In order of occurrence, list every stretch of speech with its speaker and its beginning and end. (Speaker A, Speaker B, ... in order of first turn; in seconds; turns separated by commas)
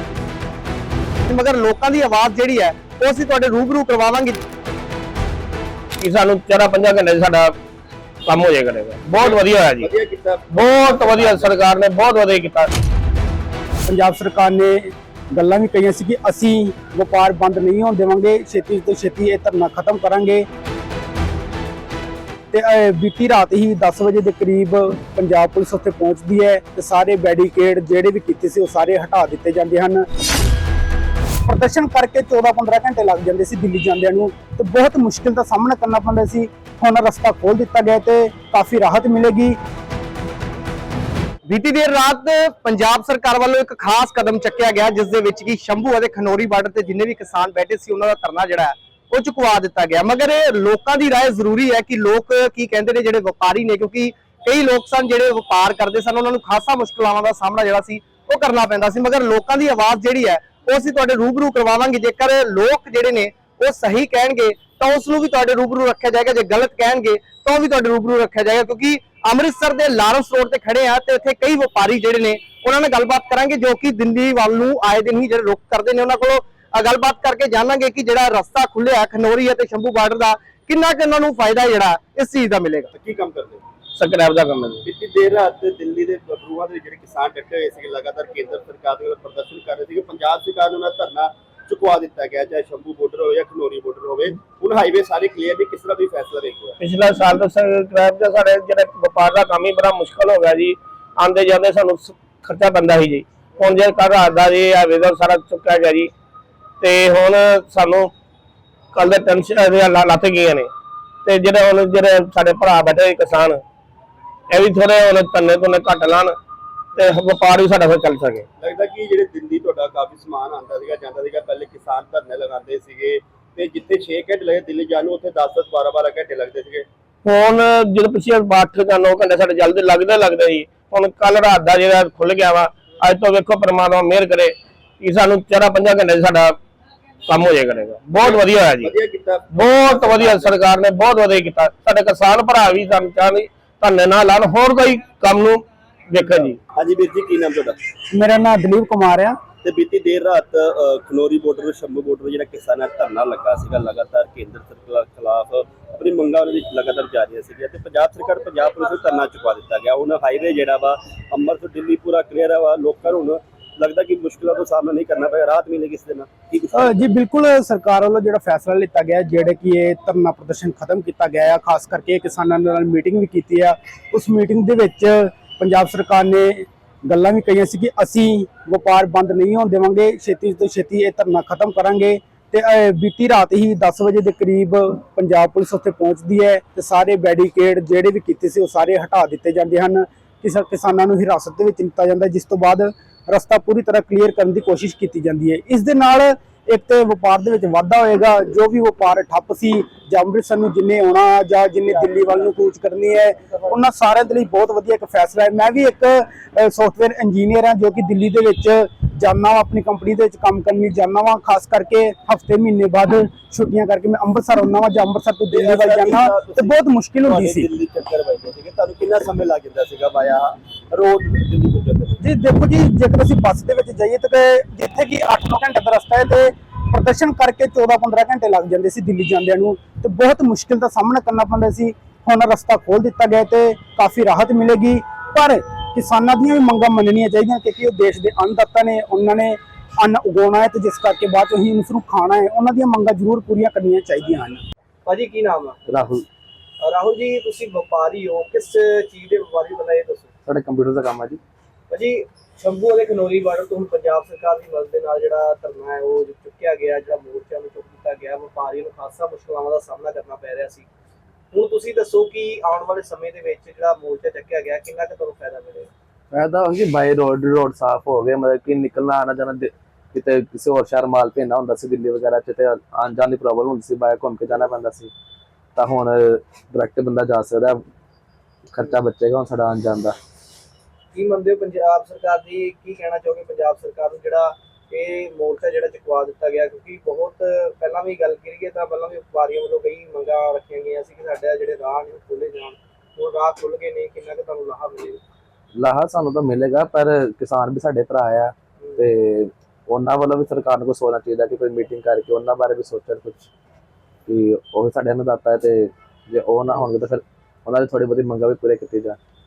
Speaker A: 1.3-4.4, Speaker B: 6.0-7.5, Speaker B: 8.3-9.9, Speaker C: 9.2-11.6, Speaker B: 10.5-12.7, Speaker D: 13.9-20.5, Speaker D: 22.5-30.1, Speaker D: 31.5-39.6, Speaker A: 41.5-82.9, Speaker C: 82.9-83.6, Speaker B: 84.0-84.8, Speaker C: 84.8-96.8, Speaker B: 96.8-106.1, Speaker B: 106.8-108.1, Speaker B: 108.9-110.7, Speaker B: 111.2-113.6, Speaker B: 114.5-116.4, Speaker B: 117.0-118.5, Speaker C: 118.6-126.9, Speaker B: 127.2-136.6, Speaker B: 137.3-138.9, Speaker C: 138.2-140.6, Speaker B: 139.5-146.6, Speaker C: 146.3-147.8, Speaker D: 148.1-149.4, Speaker C: 149.6-167.1, Speaker D: 166.8-217.7, Speaker C: 215.5-222.2, Speaker D: 222.2-244.6, Speaker A: 245.1-245.8, Speaker E: 245.9-246.2, Speaker A: 246.8-250.3, Speaker E: 250.5-251.4, Speaker A: 251.9-260.9, Speaker A: 261.5-265.9, Speaker E: 266.3-275.1, Speaker E: 275.8-277.8, Speaker E: 278.7-280.2, Speaker A: 281.1-295.2, Speaker E: 295.8-303.5, Speaker E: 304.3-309.2